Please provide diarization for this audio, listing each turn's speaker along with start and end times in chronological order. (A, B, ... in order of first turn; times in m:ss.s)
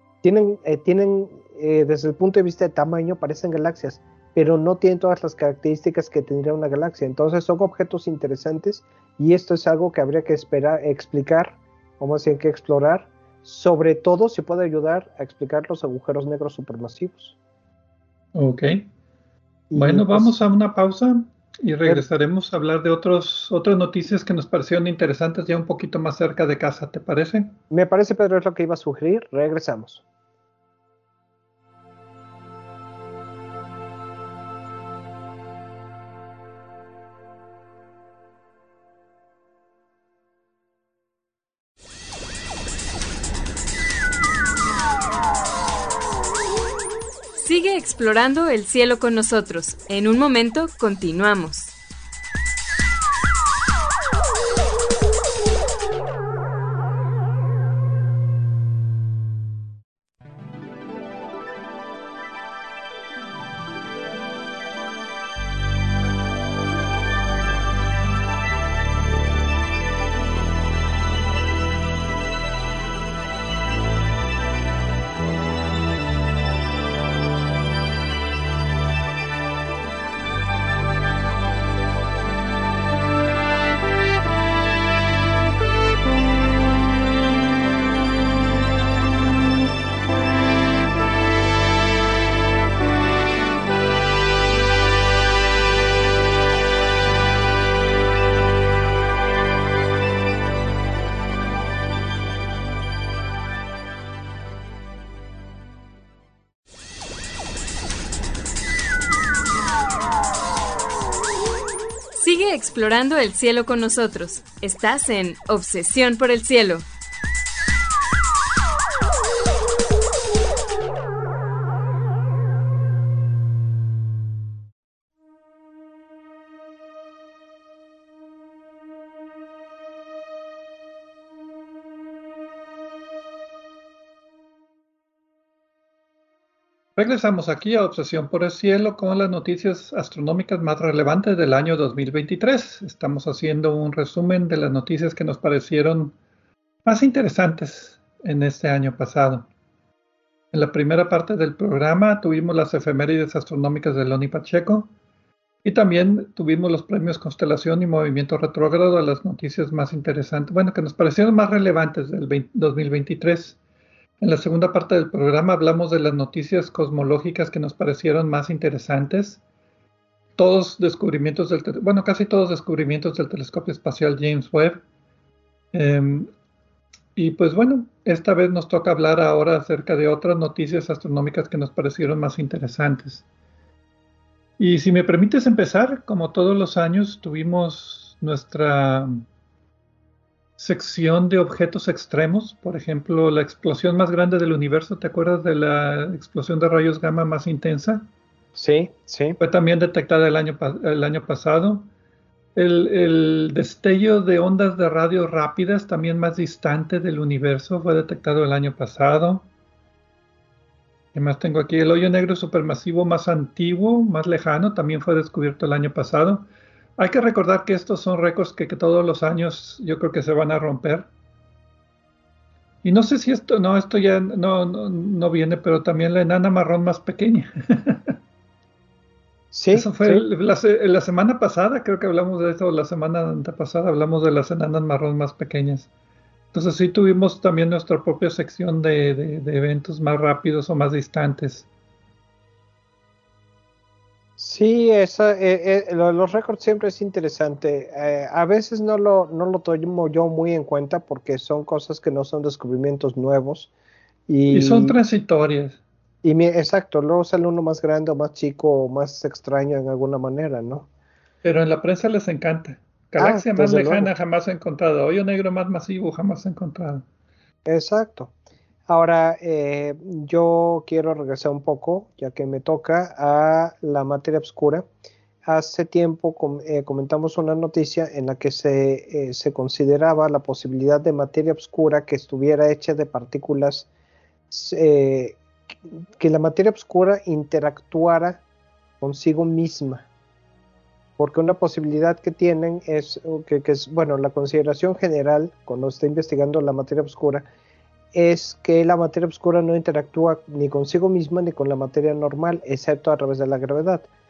0:00.2-0:17.4 A
0:18.3-0:18.8 B
0:19.7-0:20.3 A
0:19.7-0:27.5 B
0:27.7-0:30.0 A
0:47.4-0:51.7 C
1:52.2-1:56.8 C
2:17.0-2:26.1 B
2:26.8-2:29.5 B
2:30.5-2:34.9 B
2:35.6-2:43.6 B
2:44.2-2:49.4 B
2:50.4-2:54.8 B
2:55.7-2:56.3 B
2:57.2-3:03.2 B
3:04.6-3:09.2 B
3:10.6-3:18.1 B
3:18.6-3:19.4 A
3:19.4-3:21.9 B
3:22.5-3:29.4 B
3:31.1-3:41.1 B
3:42.8-3:48.2 B
3:49.5-3:50.2 A
3:49.7-3:55.9 B
3:56.5-4:01.7 B
4:04.4-4:13.7 A
4:14.3-4:15.0 A
4:14.5-4:15.8 B
4:16.2-4:20.9 A
4:21.4-4:27.0 B
4:23.2-4:24.1 A
4:27.6-4:28.3 A
4:28.9-4:34.8 A
4:35.4-4:43.9 A
4:44.5-4:45.4 A
4:46.2-4:48.4 A
4:49.0-4:50.0 A
4:51.2-4:57.5 A
4:58.1-5:04.1 A